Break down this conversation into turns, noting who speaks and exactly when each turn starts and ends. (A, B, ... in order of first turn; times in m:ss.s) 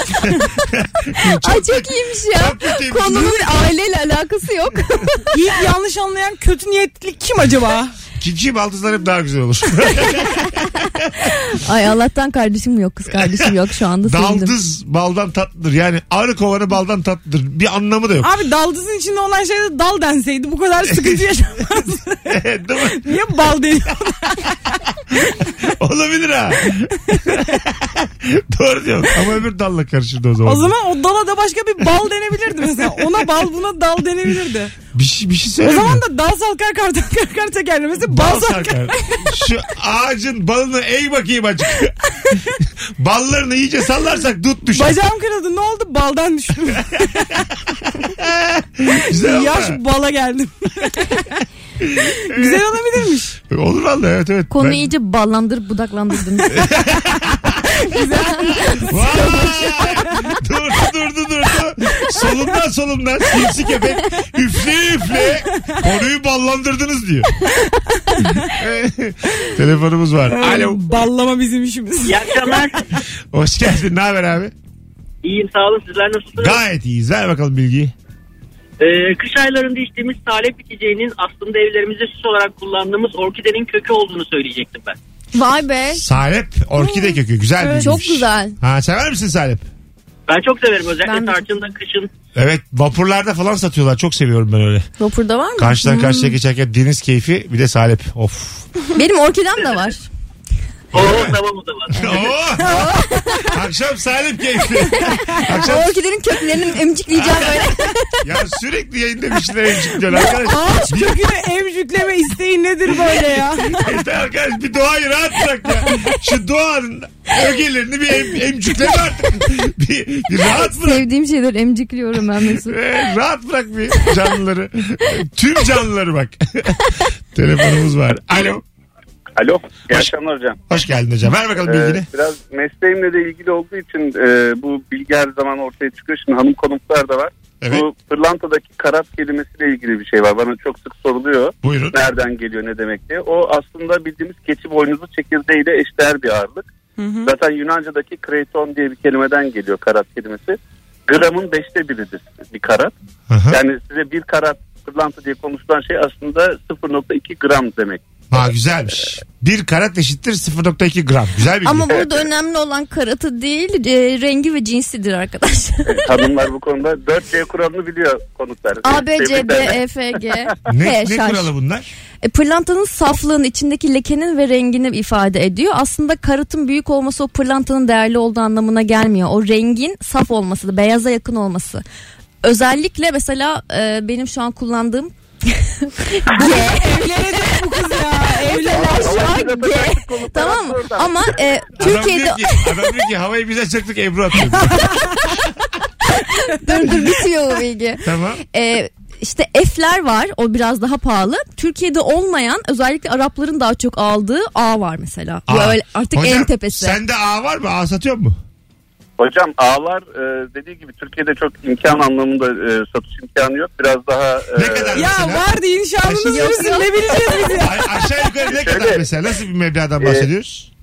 0:00.7-0:03.6 A
0:01.2-0:05.4 B
0:05.3-0:07.9 C
0:08.2-0:10.9 A
0:11.3-0:14.5 B
0:13.1-0:18.3 A
0:18.2-0:22.3 C
0:20.9-0:21.2 A
0:22.3-0:23.1 A
0:23.0-0:24.5 C
0:25.6-0:30.7 A
0:27.1-0:27.5 C
0:30.4-0:34.7 C
0:34.9-0:36.0 A
0:35.6-0:39.5 C
0:38.0-0:42.0 A
0:43.0-0:45.0 A
0:44.7-0:47.4 C
0:48.2-0:49.8 A
0:49.1-0:51.4 C
0:51.8-0:52.6 A
0:52.3-0:53.4 C
0:53.5-0:54.9 A
0:54.5-0:56.7 B
0:56.5-0:57.6 A
0:57.8-1:00.0 C
0:58.8-1:07.3 A
1:08.5-1:10.8 A
1:10.4-1:12.8 C
1:12.0-1:12.9 D
1:13.3-1:14.5 A
1:15.2-1:16.6 D
1:16.4-1:17.9 A
1:18.8-1:25.0 D
1:25.3-1:26.0 B
1:25.9-1:29.6 A
1:27.6-1:27.9 C
1:27.7-1:28.6 B
1:30.3-1:32.1 D
1:31.0-1:31.4 B
1:32.3-1:34.9 A
1:35.0-1:36.3 B
1:35.6-1:38.6 A
1:38.9-1:40.1 B
1:40.9-1:41.4 A
1:40.9-1:42.3 D
1:41.9-1:42.8 A
1:41.9-1:43.5 B
1:42.6-1:43.4 C
1:43.5-1:46.0 A
1:45.0-1:48.2 B
1:45.1-1:45.4 C
1:47.1-1:47.7 A
1:48.2-1:51.2 A
1:50.1-1:53.9 C
1:53.8-2:01.0 A
2:00.5-2:02.8 B
2:02.6-2:08.6 A
2:09.4-2:10.6 E
2:10.7-2:12.1 A
2:11.6-2:26.7 E
2:21.6-2:22.0 A
2:27.0-2:27.3 C
2:27.2-2:32.9 E
2:33.3-2:33.6 A
2:33.5-2:38.0 E
2:38.3-2:42.2 A
2:41.6-2:46.1 B
2:45.8-2:49.8 E
2:48.8-2:51.5 B
2:50.7-2:51.9 A
2:52.2-3:01.8 B
3:02.4-3:07.6 B
3:06.3-3:09.3 C
3:08.4-3:12.9 B
3:08.7-3:11.4 E
3:11.8-3:15.0 A
3:14.6-3:15.2 C
3:16.2-3:27.0 B
3:18.0-3:18.4 A
3:25.5-3:28.4 A
3:29.2-3:35.0 E
3:34.6-3:35.5 A
3:35.0-3:37.8 C
3:36.0-3:36.5 A
3:36.2-3:37.7 B
3:37.6-3:40.7 A
3:38.5-3:39.0 E
3:40.0-3:40.2 E